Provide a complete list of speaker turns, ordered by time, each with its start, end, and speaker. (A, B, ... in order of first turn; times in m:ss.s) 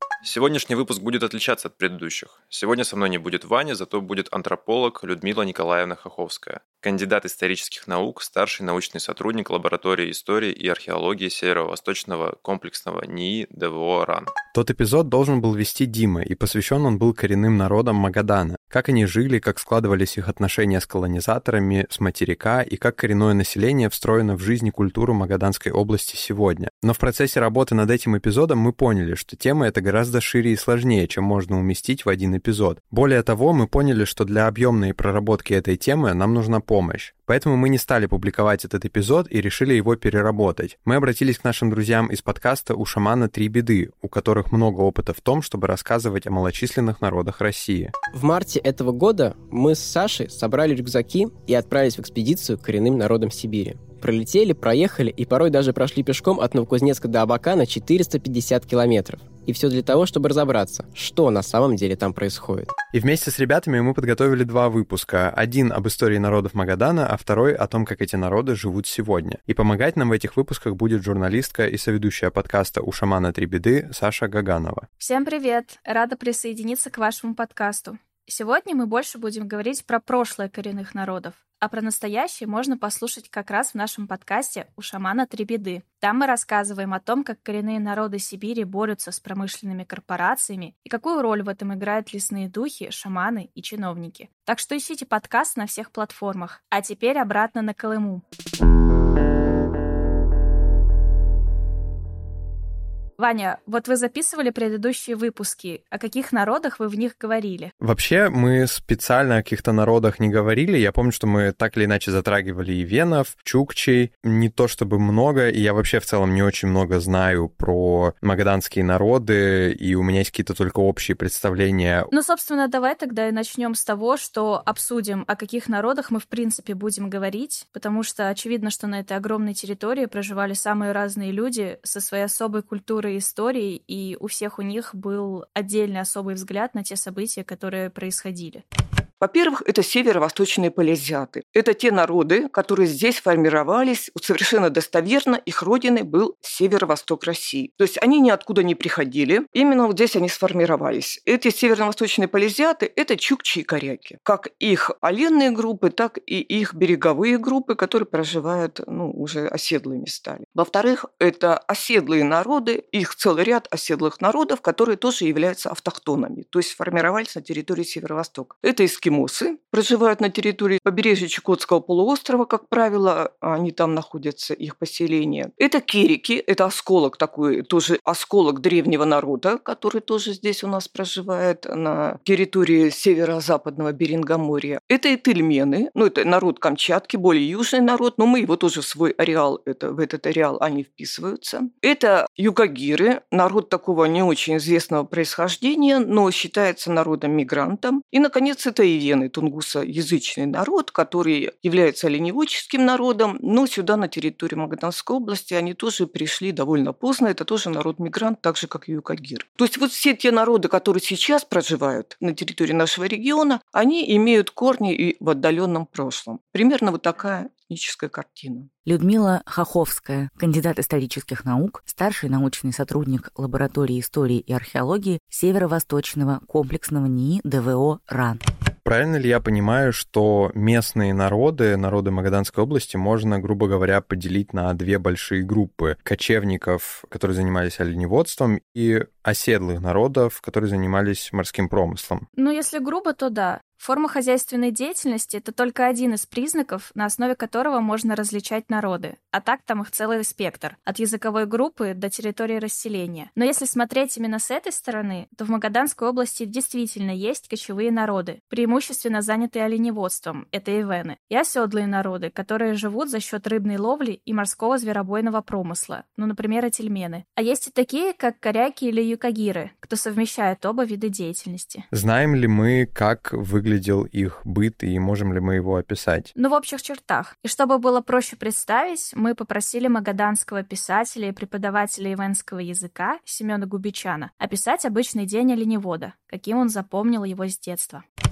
0:00.2-0:14.3 A
0:14.5-0:47.9 B
0:48.1-1:02.7 C
1:02.9-1:14.9 B
1:15.0-1:38.2 D
1:43.2-1:47.7 D
1:47.8-2:02.1 B
2:02.1-2:18.6 D
2:19.2-3:38.7 E
3:38.8-3:48.4 F
3:48.8-4:02.3 B
4:02.4-4:31.9 D
4:31.9-4:36.3 B
4:36.4-4:48.0 D